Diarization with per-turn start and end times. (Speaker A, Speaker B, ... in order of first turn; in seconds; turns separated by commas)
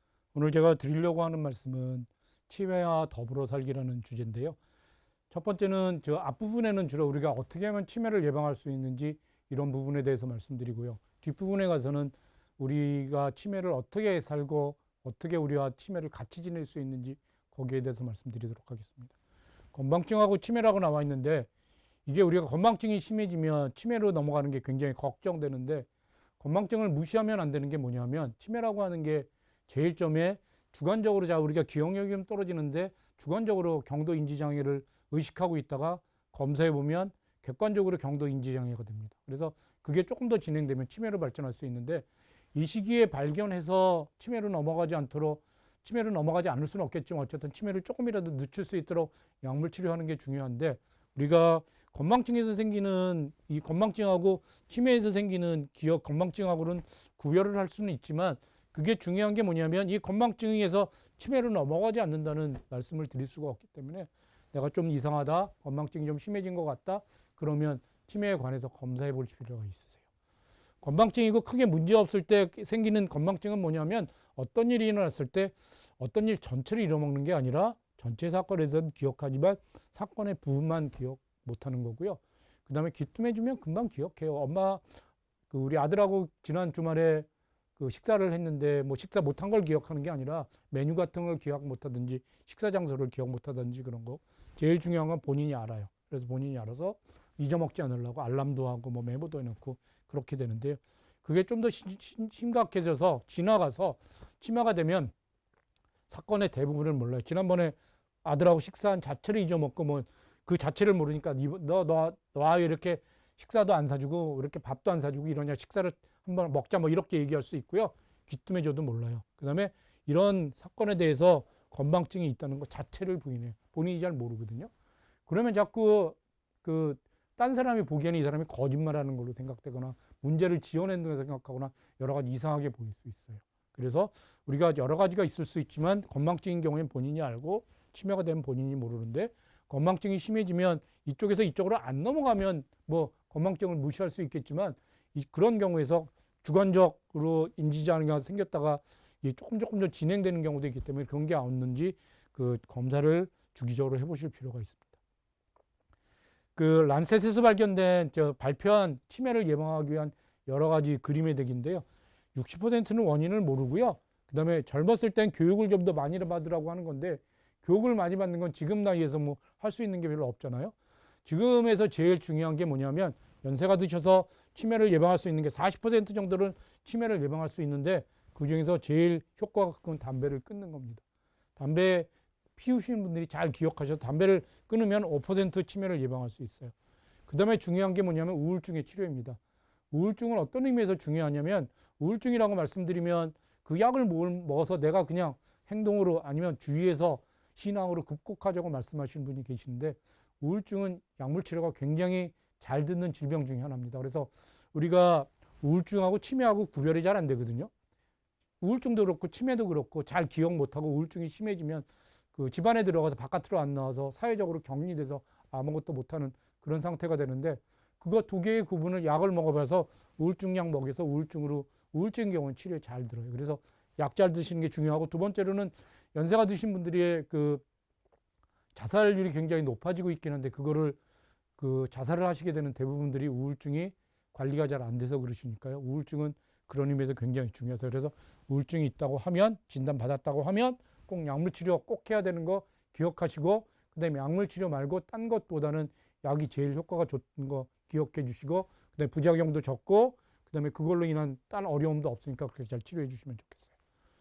Speaker A: 0.3-4.6, Speaker A: 5.3-19.1, Speaker A: 19.7-21.5, Speaker A: 22.1-25.9, Speaker A: 26.4-70.0, Speaker A: 70.8-84.8, Speaker A: 85.5-105.1, Speaker A: 106.1-124.7, Speaker A: 125.3-154.8, Speaker A: 156.6-170.7, Speaker A: 171.2-181.0, Speaker A: 181.6-186.7, Speaker A: 187.3-189.4, Speaker A: 189.9-207.7, Speaker A: 208.6-227.6, Speaker A: 228.7-231.0, Speaker A: 231.6-253.7